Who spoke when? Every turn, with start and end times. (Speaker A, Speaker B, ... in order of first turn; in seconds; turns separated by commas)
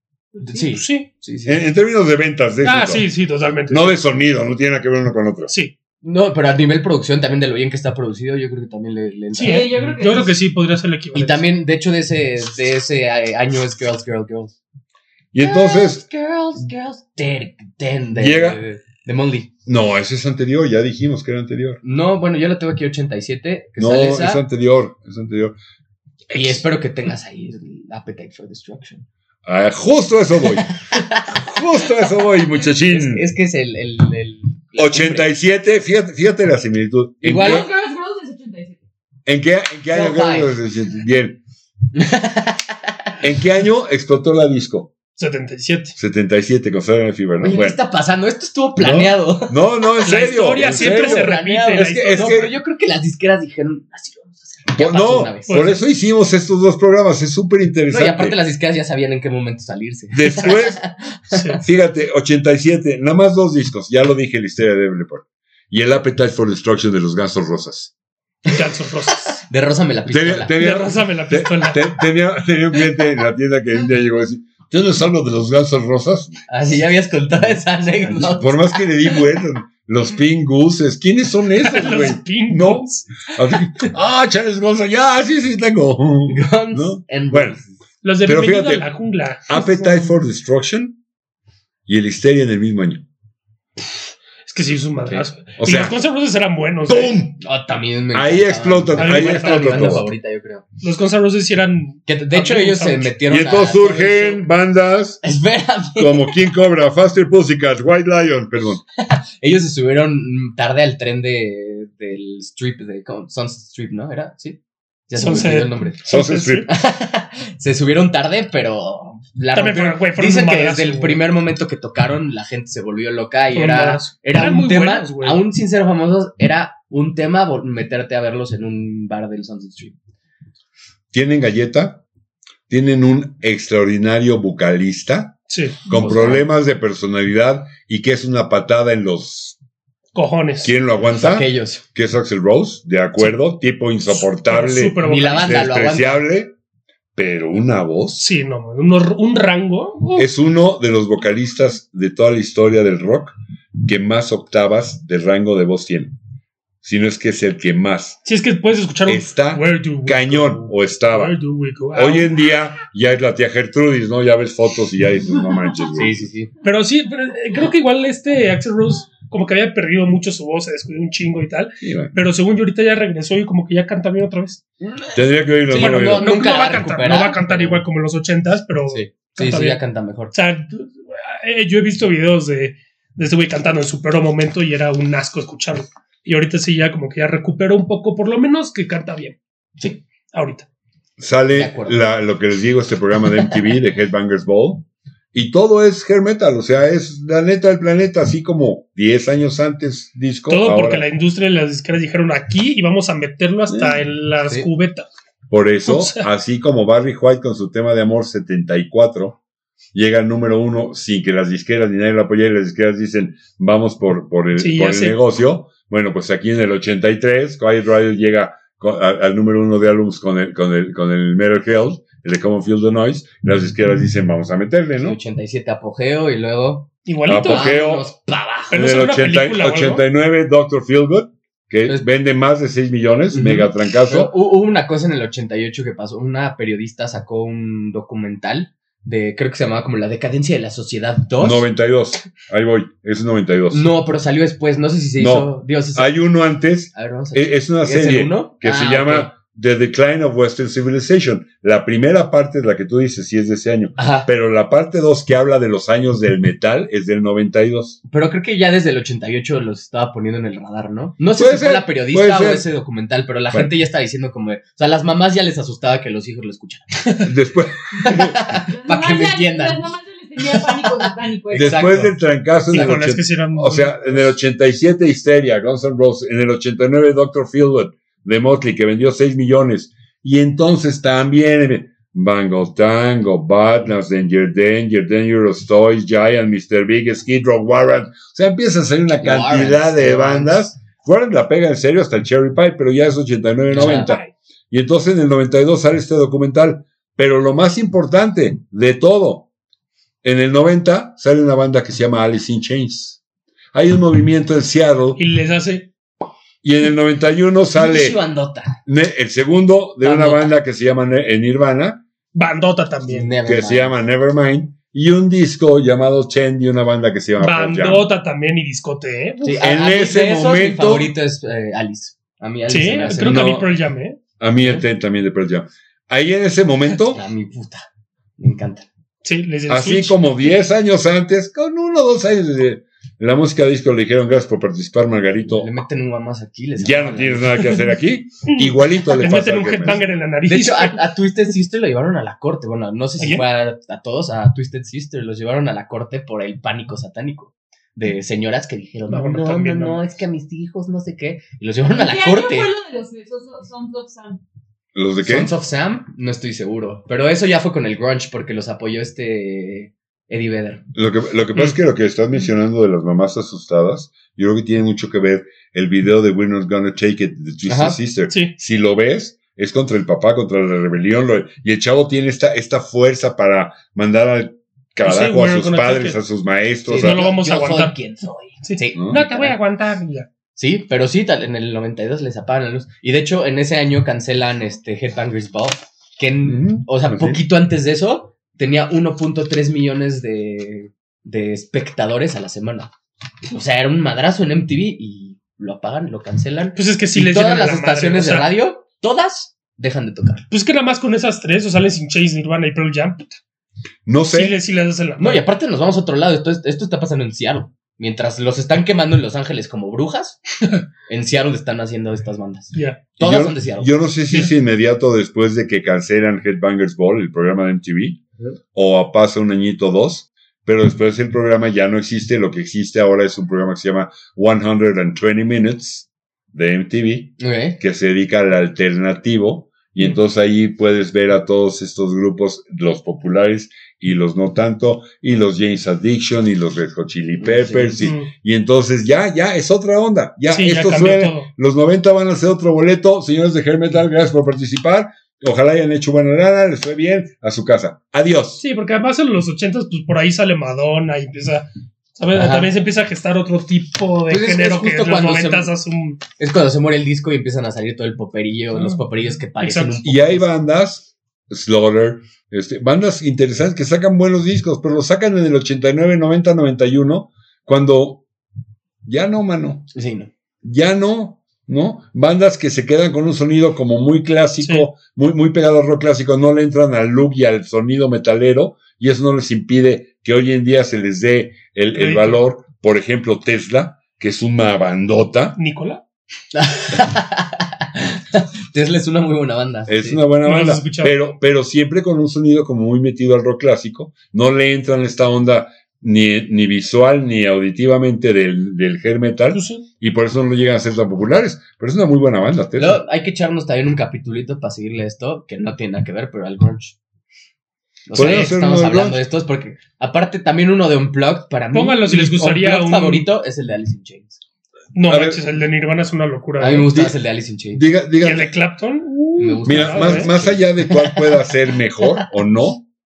Speaker A: 0.3-0.7, Speaker B: 0.4-1.6, Speaker C: 0.6-1.1, Speaker D: 1.4-3.1, Speaker C: 2.6-4.0, Speaker D: 3.7-5.5, Speaker C: 5.5-5.7, Speaker B: 6.0-10.3, Speaker C: 9.3-11.4, Speaker A: 9.3-10.3, Speaker B: 11.1-14.6, Speaker D: 15.3-16.0, Speaker B: 15.4-19.5, Speaker D: 18.1-18.6, Speaker D: 19.6-21.8, Speaker B: 21.8-24.4, Speaker D: 23.8-25.6, Speaker C: 26.3-26.6, Speaker B: 26.3-29.1, Speaker D: 29.4-33.2, Speaker B: 30.6-32.1, Speaker B: 32.9-35.3, Speaker D: 34.8-37.7, Speaker B: 37.2-37.7, Speaker A: 37.3-38.8, Speaker D: 39.2-41.4, Speaker B: 39.9-40.5, Speaker B: 41.9-42.9, Speaker D: 43.2-44.9, Speaker C: 45.2-46.0, Speaker D: 46.0-47.8, Speaker B: 47.4-55.7, Speaker D: 48.8-52.5, Speaker C: 50.0-52.5, Speaker D: 54.7-58.4, Speaker C: 55.5-55.8, Speaker B: 57.9-61.6, Speaker D: 60.1-60.8, Speaker C: 61.3-61.6, Speaker D: 61.6-67.9, Speaker C: 68.5-69.4, Speaker B: 69.4-70.6, Speaker D: 70.1-76.4, Speaker C: 70.6-71.9, Speaker B: 76.5-79.2, Speaker D: 78.0-87.6, Speaker C: 81.6-83.3, Speaker B: 86.3-87.7, Speaker C: 88.0-90.1, Speaker D: 88.2-88.9, Speaker D: 89.5-91.0, Speaker D: 91.9-93.0, Speaker C: 94.4-97.2, Speaker B: 95.0-95.2, Speaker D: 95.6-96.0, Speaker D: 96.9-97.4, Speaker B: 97.4-100.6, Speaker D: 98.1-100.0, Speaker C: 99.0-100.0, Speaker C: 100.8-103.2, Speaker B: 102.0-104.4, Speaker D: 103.3-105.2, Speaker B: 105.2-106.3, Speaker D: 106.0-108.8, Speaker B: 109.0-114.6, Speaker B: 115.1-116.0, Speaker C: 115.2-116.7, Speaker D: 116.0-116.7, Speaker B: 116.7-129.9, Speaker C: 119.5-121.2, Speaker C: 123.5-125.4, Speaker D: 131.1-132.0, Speaker D: 132.7-139.6, Speaker C: 135.5-135.8, Speaker B: 135.9-136.4, Speaker C: 140.1-140.7, Speaker D: 140.6-146.5, Speaker B: 141.0-141.8, Speaker C: 144.4-145.6, Speaker B: 145.0-146.2, Speaker D: 147.1-148.3, Speaker C: 148.2-150.3, Speaker D: 150.2-156.2, Speaker D: 156.8-158.2, Speaker C: 158.2-162.3, Speaker D: 159.1-161.4, Speaker D: 161.9-166.3, Speaker B: 165.9-166.5, Speaker C: 166.6-174.6, Speaker D: 171.8-172.1, Speaker B: 174.8-177.8, Speaker D: 175.1-176.4, Speaker C: 175.7-179.8, Speaker B: 178.9-180.3, Speaker C: 180.3-189.4, Speaker C: 190.3-190.7, Speaker D: 191.2-201.0, Speaker B: 191.5-192.1, Speaker C: 200.5-205.1, Speaker D: 203.7-204.0, Speaker D: 205.5-209.4, Speaker C: 205.8-206.3, Speaker D: 209.9-225.2, Speaker C: 214.6-215.2, Speaker B: 225.0-226.9, Speaker C: 227.1-227.7, Speaker D: 227.2-228.1, Speaker B: 227.4-228.8, Speaker C: 228.7-230.0, Speaker D: 228.7-234.3, Speaker B: 233.3-241.6, Speaker D: 241.4-243.9, Speaker B: 243.7-246.2, Speaker D: 245.2-258.0, Speaker B: 246.9-249.3, Speaker B: 253.9-254.3, Speaker B: 258.1-267.3, Speaker D: 261.3-262.6, Speaker D: 267.2-268.6, Speaker B: 267.9-272.2, Speaker A: 268.7-271.9, Speaker D: 271.5-299.5, Speaker C: 272.7-274.3, Speaker B: 272.7-273.0, Speaker B: 289.2-290.7, Speaker B: 293.7-294.1, Speaker C: 293.8-294.3, Speaker D: 300.2-303.2, Speaker D: 303.7-305.2, Speaker C: 305.2-305.9, Speaker D: 306.6-308.2, Speaker B: 307.7-308.8, Speaker D: 308.9-312.0, Speaker B: 310.0-310.5, Speaker C: 312.3-313.3, Speaker B: 313.1-313.9, Speaker D: 313.4-318.1, Speaker C: 317.4-319.6, Speaker B: 319.4-323.6, Speaker D: 319.6-321.1, Speaker C: 322.7-324.2, Speaker D: 323.2-323.7, Speaker D: 324.4-327.2, Speaker B: 327.1-327.9, Speaker B: 328.4-328.9, Speaker C: 329.2-330.2, Speaker D: 329.7-335.7, Speaker B: 335.4-337.6, Speaker D: 336.8-340.0, Speaker C: 338.5-341.1, Speaker B: 340.5-352.7, Speaker C: 343.2-343.4, Speaker C: 349.1-350.0, Speaker A: 351.9-354.4, Speaker D: 354.9-355.5, Speaker B: 355.2-360.8, Speaker D: 360.9-377.3, Speaker B: 367.6-368.0, Speaker C: 368.3-368.6, Speaker C: 375.0-376.2, Speaker B: 376.9-379.6, Speaker C: 377.0-377.9, Speaker C: 378.6-380.3, Speaker B: 380.5-392.9, Speaker D: 386.4-387.4, Speaker B: 393.5-400.4, Speaker C: 396.8-398.5, Speaker C: 400.5-403.3, Speaker D: 404.1-404.6, Speaker C: 404.3-405.4, Speaker B: 405.2-410.4, Speaker B: 411.1-413.9, Speaker C: 412.7-413.0, Speaker D: 413.2-418.2, Speaker D: 418.7-448.6, Speaker B: 427.4-427.8, Speaker B: 437.4-438.1, Speaker C: 438.0-438.3, Speaker C: 440.5-441.5, Speaker C: 448.6-456.2, Speaker B: 452.3-452.7, Speaker B: 454.3-455.7, Speaker B: 456.4-460.5, Speaker C: 458.8-459.0, Speaker C: 459.6-460.0, Speaker D: 460.0-468.2, Speaker D: 469.0-469.9, Speaker B: 469.9-470.3, Speaker D: 470.6-485.6, Speaker C: 474.6-474.9, Speaker C: 481.9-482.4, Speaker C: 485.6-486.0, Speaker B: 486.5-490.2, Speaker D: 489.9-503.0, Speaker C: 490.4-491.2, Speaker C: 499.5-499.8, Speaker B: 502.8-506.9, Speaker B: 508.1-514.4, Speaker D: 508.1-509.2, Speaker C: 508.1-508.5, Speaker C: 511.7-513.3, Speaker C: 514.9-517.0, Speaker D: 515.1-515.4, Speaker B: 516.6-517.8, Speaker D: 517.7-518.5, Speaker C: 518.2-520.3, Speaker B: 519.4-521.4, Speaker D: 519.6-522.8